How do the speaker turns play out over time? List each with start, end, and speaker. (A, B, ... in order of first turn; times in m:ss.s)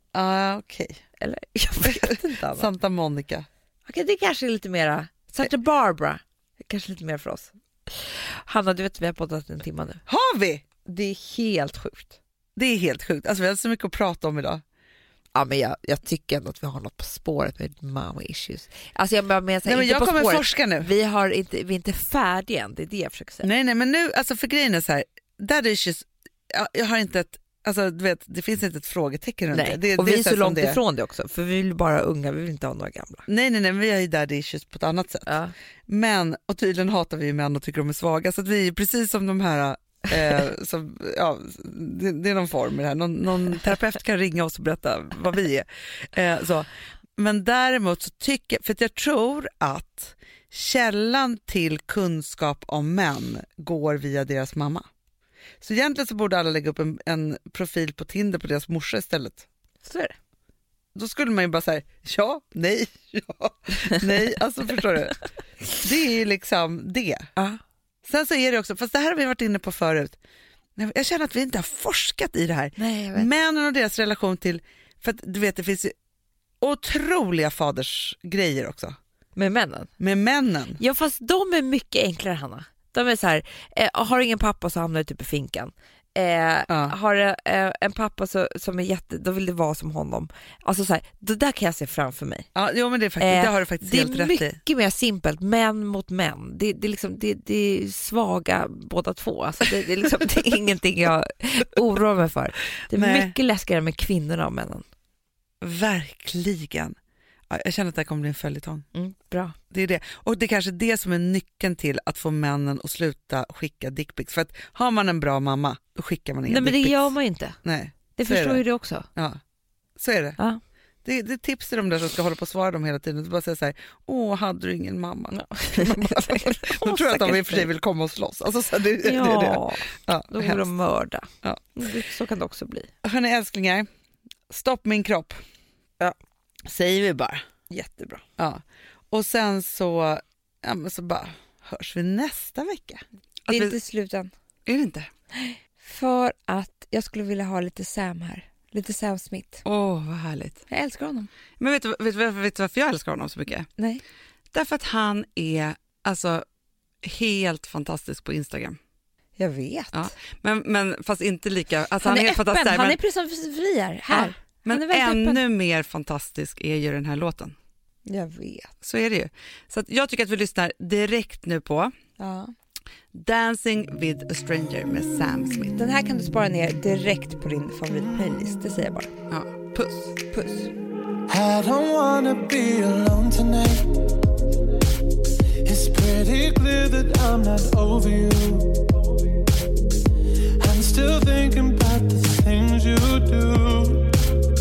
0:00.1-0:01.0 A
0:01.2-0:02.7 B
0:01.8-0:03.5 A
0:03.9-0:10.0 B
0:10.1-0:10.6 A
0:10.8-0:12.2 B
0:12.6-0:14.6 A
0:15.3-0:23.5 B
0:19.6-0:20.9 A
0:23.4-0:30.8 A
0:29.5-0:33.3 B
0:33.3-0:35.3 A
0:35.3-0:35.5 B
0:35.9-0:54.9 A
0:55.6-0:59.5 A
0:59.8-1:00.2 B
1:01.0-1:05.2 A
1:05.7-1:07.3 A
1:08.0-1:10.2 A
1:10.8-1:16.0 A
1:12.8-1:13.3 B
1:16.6-1:19.0 A
1:19.4-1:19.9 B
1:20.0-1:20.8 A
1:20.8-1:32.5 B
1:26.7-1:27.0 A
1:32.6-1:34.6 A
1:33.2-1:44.8 B
1:42.9-1:43.4 A
1:45.6-1:47.0 A
1:47.5-1:48.9 A
1:48.9-1:49.6 B
1:49.7-1:58.6 A
1:56.5-1:57.6 B
1:58.2-1:59.1 B
1:59.2-1:59.4 A
2:00.0-2:00.4 A
2:01.0-2:10.6 A
2:05.3-2:07.7 B
2:09.0-2:12.9 B
2:11.4-2:11.9 A
2:13.0-2:13.9 A
2:14.5-2:15.4 A
2:16.6-2:17.4 A
2:17.7-2:18.2 B
2:18.4-2:23.8 A
2:23.5-2:24.3 B
2:24.7-2:25.1 A
2:25.4-2:29.6 B
2:29.6-2:30.6 A
2:30.7-2:31.3 B
2:31.6-2:33.7 A
2:34.5-2:36.4 A
2:37.0-2:38.8 A
2:39.4-2:40.1 B
2:39.9-2:43.0 A
2:42.0-2:45.4 B
2:44.1-2:47.6 A
2:48.1-2:48.7 B
2:48.8-2:51.9 A
2:52.2-2:52.5 B
2:53.1-2:55.9 A
2:55.8-2:59.1 B
2:59.3-3:00.3 A
3:00.3-3:00.7 B
3:01.3-3:03.9 C
3:05.6-3:08.9 C
3:10.6-3:14.1 C